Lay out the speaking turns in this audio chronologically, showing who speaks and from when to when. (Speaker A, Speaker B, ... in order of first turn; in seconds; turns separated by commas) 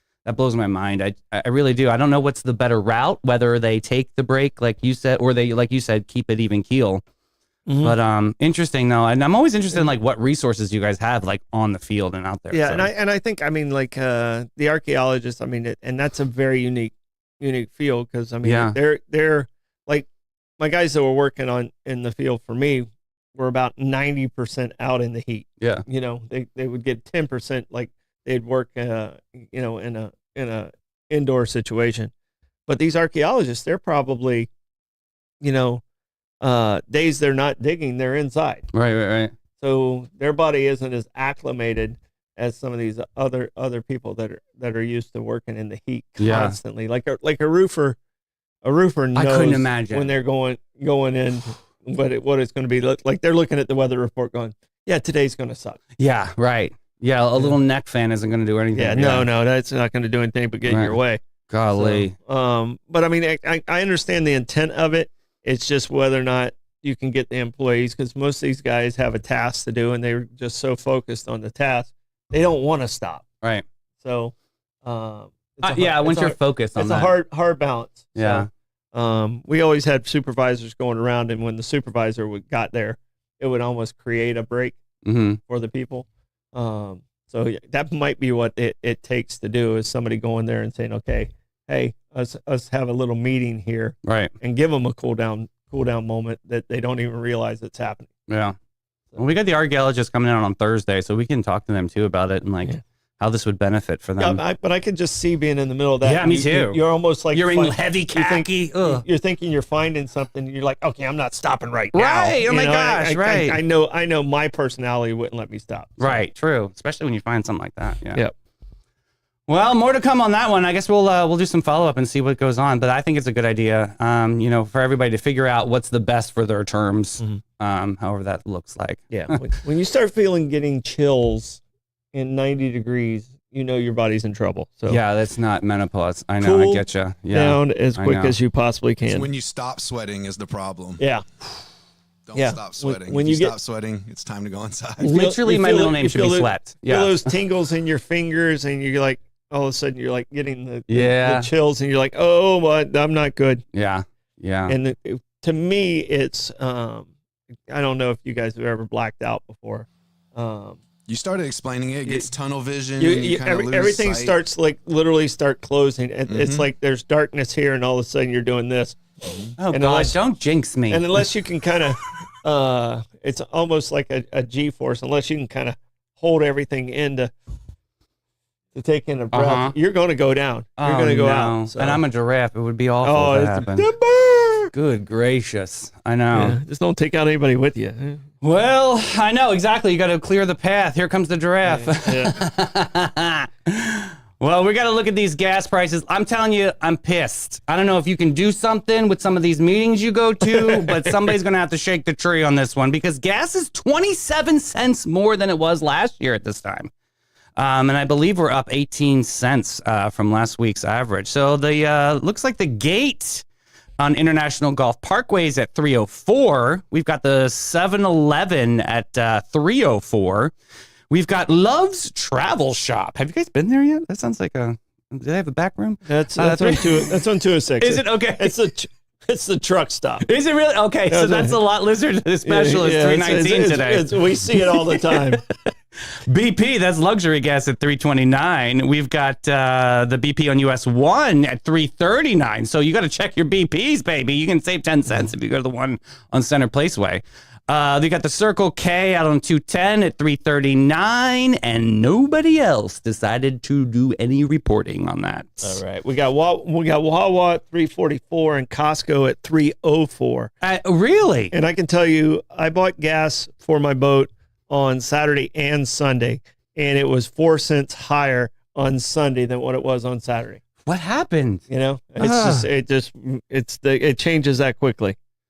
Speaker A: 0.2-7.0, Speaker B: 7.7-8.0, Speaker A: 7.8-12.9, Speaker B: 12.5-20.1, Speaker A: 18.4-18.8, Speaker B: 20.6-32.1, Speaker A: 25.6-25.8, Speaker B: 32.7-34.5, Speaker B: 35.4-35.8, Speaker B: 36.4-38.6, Speaker A: 38.7-39.3, Speaker B: 39.6-48.0, Speaker A: 46.2-46.6, Speaker B: 48.6-55.8, Speaker A: 49.1-50.1, Speaker A: 56.0-59.2, Speaker B: 58.7-73.2, Speaker A: 60.7-61.0, Speaker A: 61.5-62.1, Speaker B: 74.0-74.3, Speaker B: 74.8-84.8, Speaker A: 75.6-77.1, Speaker A: 78.1-78.5, Speaker A: 85.0-85.4, Speaker B: 85.5-98.1, Speaker A: 94.0-94.3, Speaker A: 98.3-98.5, Speaker A: 99.2-104.4, Speaker B: 104.2-116.2, Speaker A: 106.0-106.8, Speaker A: 107.3-109.0, Speaker A: 111.9-113.6, Speaker A: 116.0-118.2, Speaker A: 119.5-129.4, Speaker B: 129.1-131.6, Speaker B: 132.1-135.0, Speaker A: 134.9-138.3, Speaker B: 136.4-139.3, Speaker C: 139.1-141.0, Speaker B: 141.0-141.2, Speaker C: 142.2-145.1, Speaker B: 142.3-143.5, Speaker B: 145.0-153.6, Speaker A: 145.0-147.3, Speaker A: 150.9-151.5, Speaker A: 153.7-154.7, Speaker B: 154.7-157.1, Speaker B: 157.7-160.8, Speaker C: 161.1-164.4, Speaker B: 163.0-169.0, Speaker C: 166.3-166.7, Speaker C: 169.2-169.5, Speaker A: 169.6-171.2, Speaker B: 169.7-170.2, Speaker B: 170.9-177.3, Speaker B: 178.7-182.0, Speaker A: 179.3-179.7, Speaker A: 180.8-183.9, Speaker B: 183.0-184.7, Speaker A: 184.7-186.6, Speaker B: 186.3-188.2, Speaker A: 188.4-206.9, Speaker B: 191.6-192.3, Speaker B: 200.5-200.9, Speaker A: 207.6-213.4, Speaker A: 214.0-220.5, Speaker A: 221.1-228.5, Speaker B: 226.1-230.2, Speaker A: 230.2-235.7, Speaker B: 231.1-231.6, Speaker B: 232.4-235.4, Speaker A: 236.2-255.8, Speaker B: 255.6-260.5, Speaker A: 260.6-261.5, Speaker B: 261.5-270.6, Speaker A: 270.8-271.6, Speaker B: 271.7-275.1, Speaker A: 272.2-272.7